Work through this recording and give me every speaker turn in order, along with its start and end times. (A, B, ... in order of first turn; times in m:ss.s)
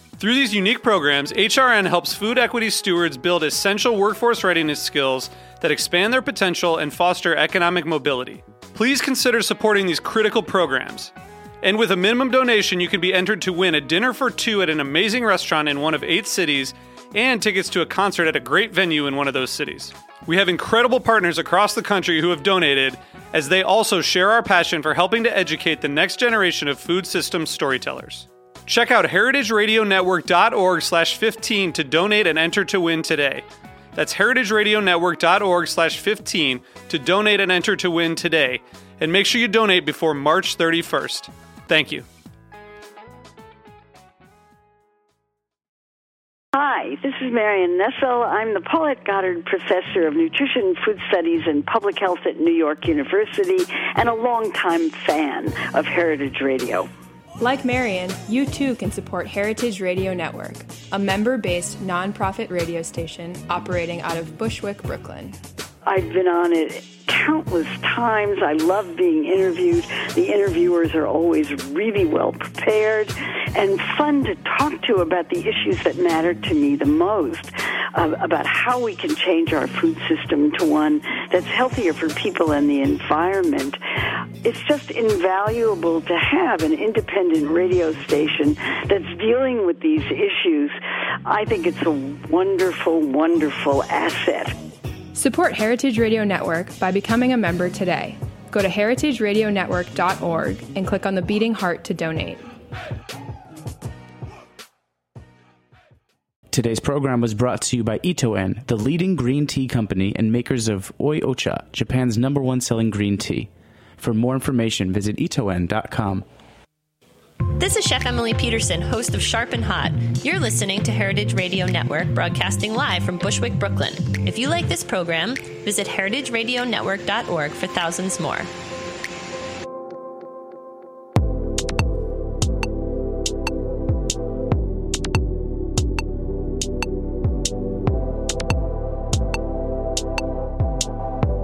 0:00.2-0:42.0 A
0:46.5-0:56.9 B
0:57.4-1:05.4 C
1:05.8-1:23.8 B
1:24.4-1:30.8 B
1:31.3-1:34.6 B
1:35.1-1:42.5 C
1:46.5-1:56.3 D
1:57.6-2:08.5 E